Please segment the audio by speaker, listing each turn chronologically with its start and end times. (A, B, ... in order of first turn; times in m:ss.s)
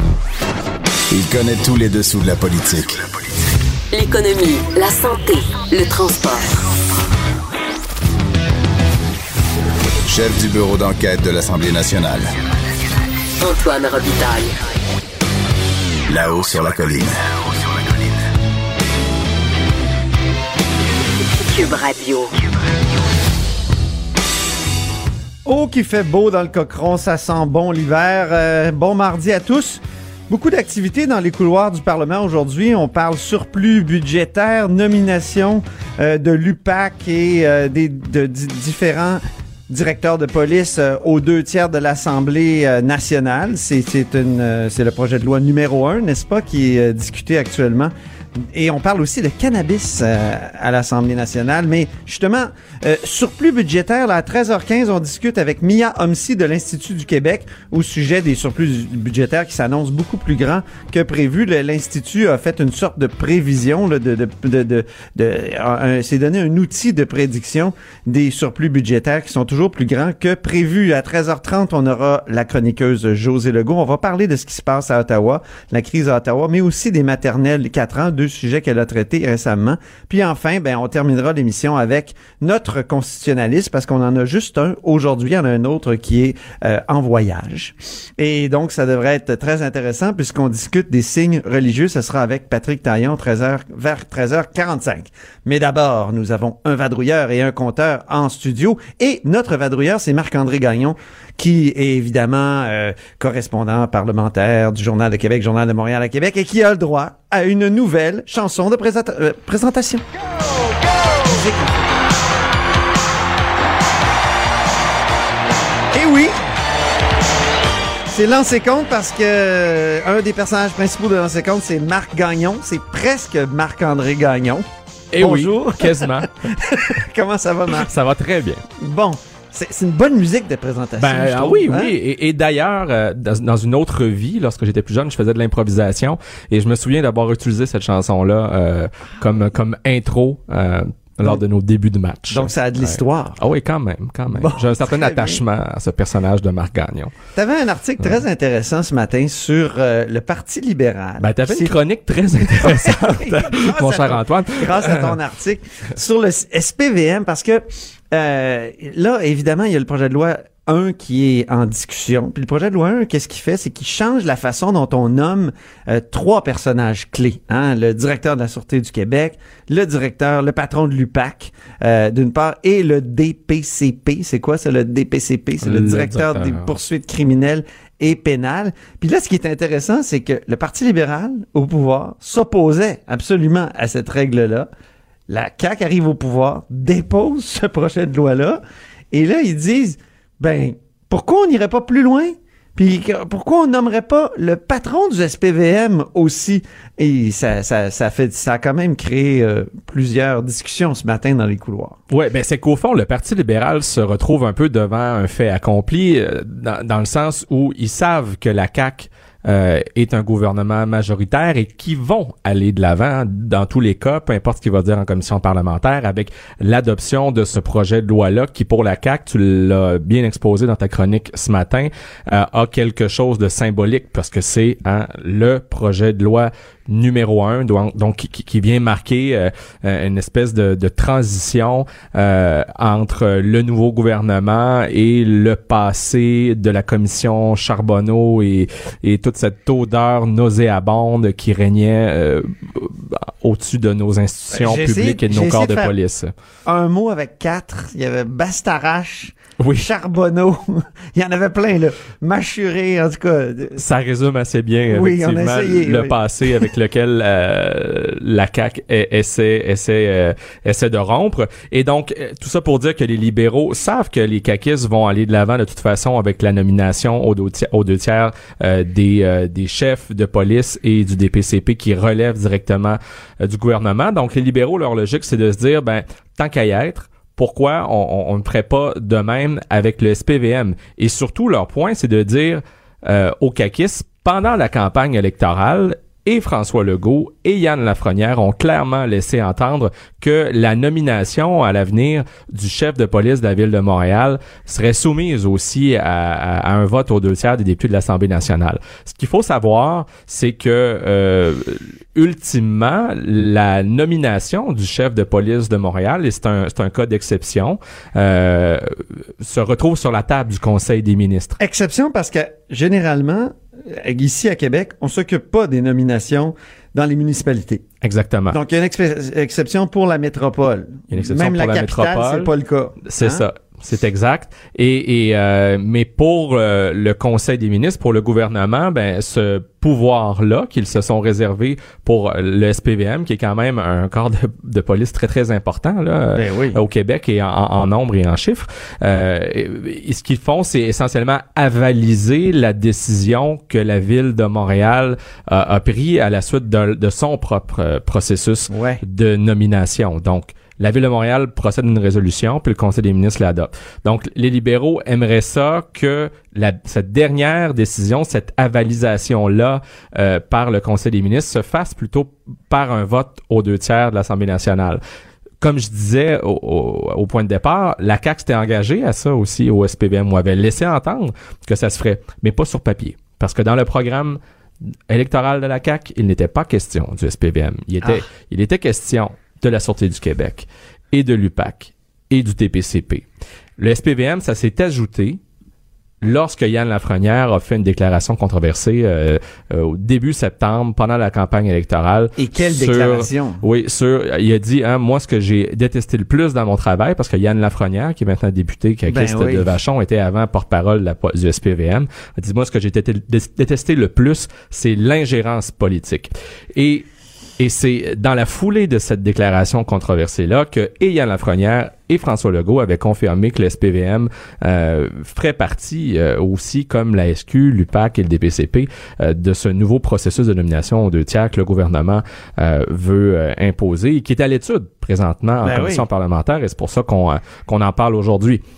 0:01.1-0:03.0 A
0:03.9-0:06.5 B
0:10.1-0:12.3 A
0:13.4-0:14.5 B
0:16.1-0:17.2 A
0:21.4-0:22.3 B
0:25.4-1:50.0 C
1:51.2-1:51.7 C
1:55.9-1:56.3 C
1:58.1-2:04.6 C
2:05.1-2:06.8 D
2:05.2-2:07.9 C
2:07.7-2:08.6 D
2:08.8-2:11.9 C
2:11.0-2:27.1 D
2:22.3-2:23.4 C
2:24.3-2:25.4 C
2:27.3-2:31.8 C
2:31.2-2:35.1 D
2:32.5-3:04.7 C
2:55.6-2:56.8 D
3:05.3-3:22.0 C
3:22.1-4:06.3 D
4:04.5-4:05.9 C
4:06.6-4:13.8 C
4:09.6-4:09.8 D
4:13.8-5:08.8 D
4:14.9-4:16.7 C
5:09.4-5:11.6 D
5:11.6-5:17.8 C
5:18.0-5:18.6 D
5:18.5-5:23.4 C
5:21.1-5:22.5 D
5:23.0-6:05.0 D
5:36.3-5:36.8 C
5:48.7-5:49.0 C
6:05.6-6:14.4 D
6:15.1-6:23.2 D
6:23.8-6:25.4 D
6:26.2-6:47.0 D
6:32.4-6:33.6 C
6:39.1-6:39.7 C
6:47.6-7:08.6 D
7:05.6-7:06.0 C